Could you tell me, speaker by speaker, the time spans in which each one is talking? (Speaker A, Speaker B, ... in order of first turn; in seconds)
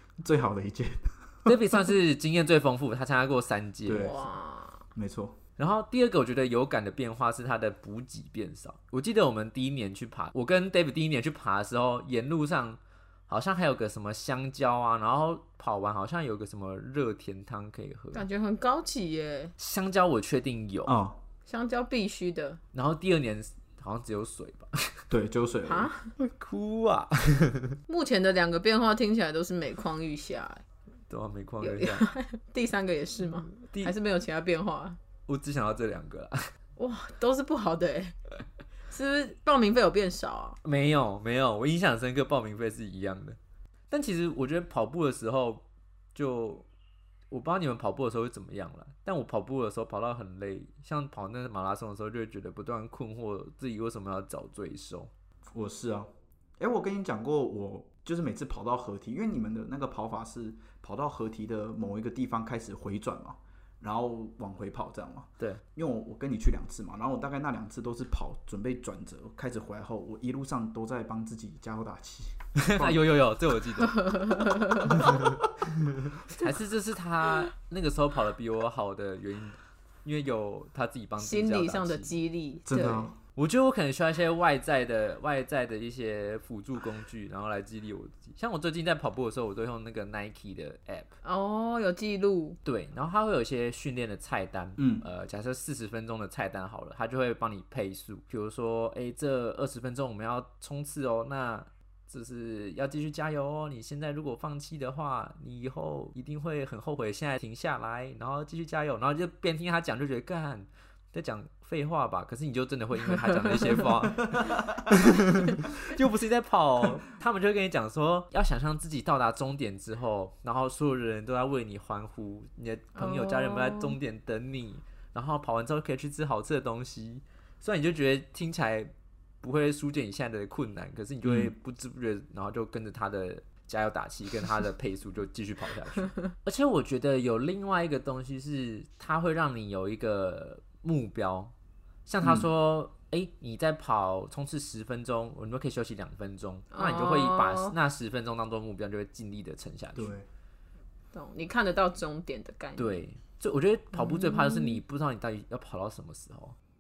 Speaker A: 0.2-1.5, 3.8-4.2, 4.9-5.4, 20.9-21.2, 25.1-25.9, 55.5-73.0, 82.7-83.1, 94.8-95.0, 114.3-115.0, 131.2-131.5, 142.2-142.5, 149.9-150.3
Speaker B: 1.4-4.1, 5.6-18.2, 19.6-20.9, 22.7-25.0, 26.2-27.8, 31.1-32.1, 33.5-33.9, 35.3-36.5, 40.6-43.4, 43.9-46.7, 47.3-55.1, 72.6-74.2, 74.8-75.4, 76.2-82.1, 83.3-91.1, 92.6-141.5, 142.1-150.1, 152.8-156.6
Speaker C: 3.9-4.8, 18.1-19.5, 21.5-22.6, 25.6-26.1, 27.9-30.6, 31.6-35.0, 36.8-38.1, 38.9-40.6, 73.8-75.2, 81.2-83.1, 91.2-92.6, 122.9-124.0, 146.7-147.8, 151.1-152.9, 153.9-154.8